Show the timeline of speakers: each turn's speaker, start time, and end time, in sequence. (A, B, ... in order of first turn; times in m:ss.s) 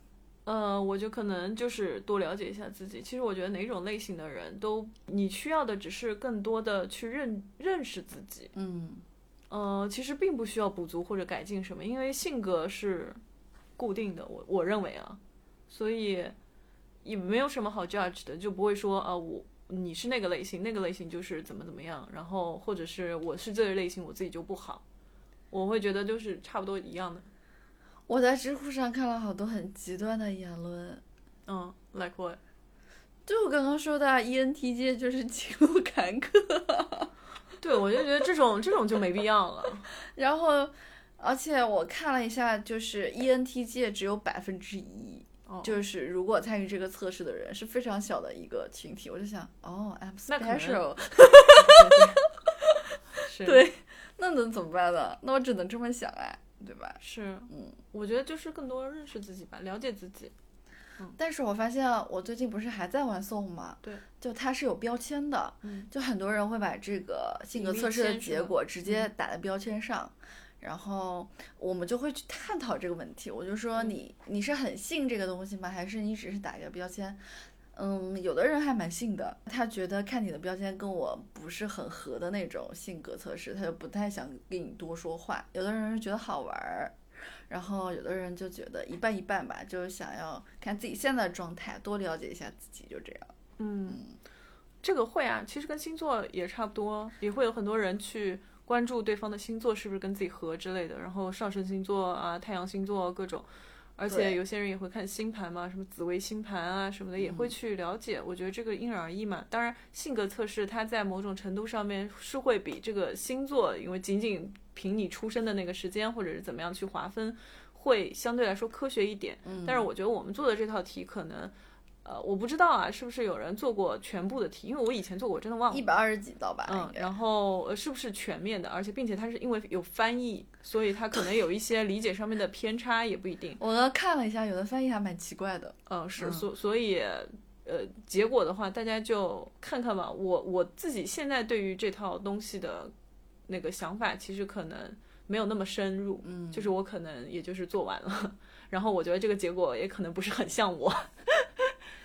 0:00.4-0:08.5 A
0:08.6-0:09.0 B
0:09.5-0:13.2 A
0:13.8-0:16.4 A
0:17.0-0:24.8 A
0:25.5-0:27.3 A
0:28.1-0:31.0 B
0:31.5-0:32.4 A
0:33.3-0:37.1 B
0:37.6-0:39.9 A
0:40.0-0:52.0 B
0:45.5-0:45.8 A
0:50.3-0:52.3 A
0:53.1-0:53.6 A
0:53.4-0:57.8 B
0:57.0-1:00.3 A
1:01.2-1:17.2 B
1:05.6-1:05.9 A
1:07.5-1:09.1 A
1:17.7-1:27.0 B
1:27.5-1:33.3 B
1:33.6-1:34.0 A
1:34.8-2:05.9 A
1:44.1-1:44.4 B
1:47.2-1:47.5 B
1:59.4-1:59.9 B
2:05.7-2:07.1 B
2:06.6-2:13.6 A
2:13.6-2:16.4 B
2:15.9-2:22.9 A
2:23.5-2:31.7 A
2:26.2-2:26.7 B